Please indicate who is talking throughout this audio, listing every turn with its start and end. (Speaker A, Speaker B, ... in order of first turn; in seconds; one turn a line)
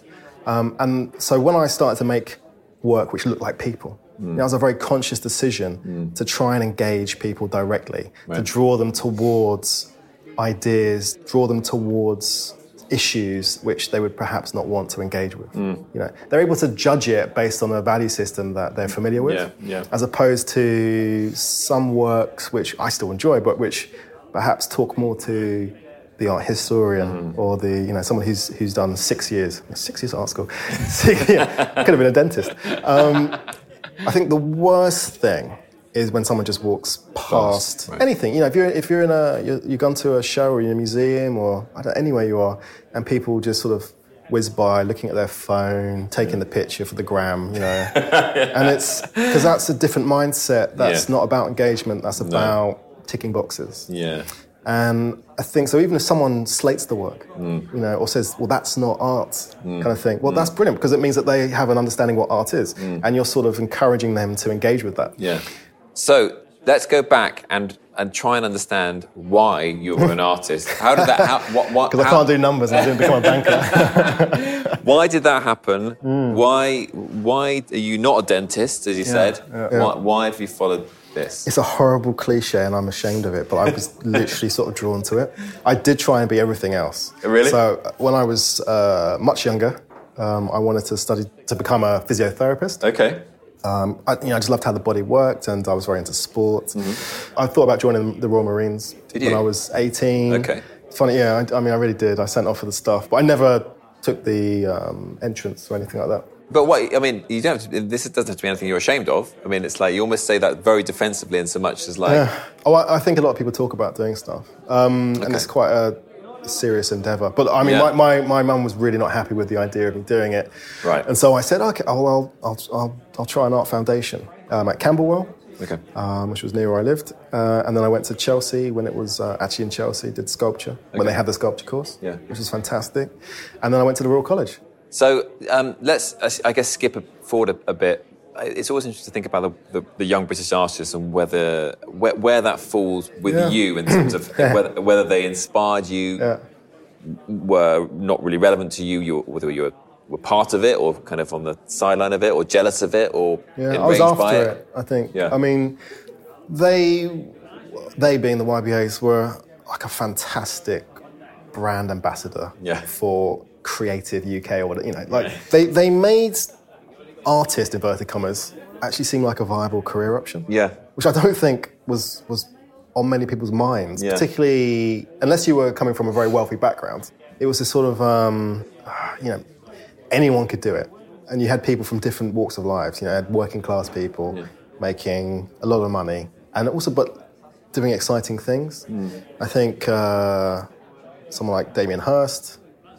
Speaker A: 0.5-33.5
Speaker B: 4.2-4.4
Speaker B: 5.8-6.1
Speaker B: 15.5-15.8
Speaker B: 19.1-19.9
Speaker B: 27.0-27.4
Speaker A: 34.0-53.9
Speaker B: 37.3-38.0
Speaker B: 47.8-49.5
Speaker B: 50.8-51.1
Speaker B: 52.2-52.6
Speaker B: 53.9-54.3
Speaker A: 54.6-65.2
Speaker B: 57.4-57.7
Speaker B: 59.6-60.5
Speaker B: 62.8-63.0
Speaker B: 65.2-81.5
Speaker A: 70.9-74.8
Speaker A: 76.0-76.4
Speaker A: 79.0-79.9
Speaker A: 81.5-92.8
Speaker B: 87.2-87.6
Speaker B: 92.8-93.3
Speaker A: 93.6-106.3
Speaker B: 96.8-97.0
Speaker B: 99.1-99.5
Speaker B: 100.3-100.6
Speaker B: 106.5-112.3
Speaker A: 112.1-125.4
Speaker B: 115.2-115.5
Speaker B: 117.6-117.9
Speaker A: 125.9-134.6
Speaker B: 134.9-146.3
Speaker A: 143.3-144.6
Speaker B: 147.0-154.6
Speaker A: 153.6-155.8
Speaker A: 156.5-161.0
Speaker A: 161.5-166.5
Speaker B: 162.6-162.9
Speaker B: 165.1-165.4
Speaker A: 167.2-179.4
Speaker B: 170.5-170.8
Speaker B: 174.0-174.3
Speaker A: 180.1-188.9
Speaker B: 188.9-189.2
Speaker A: 189.4-190.7
Speaker A: 191.3-192.6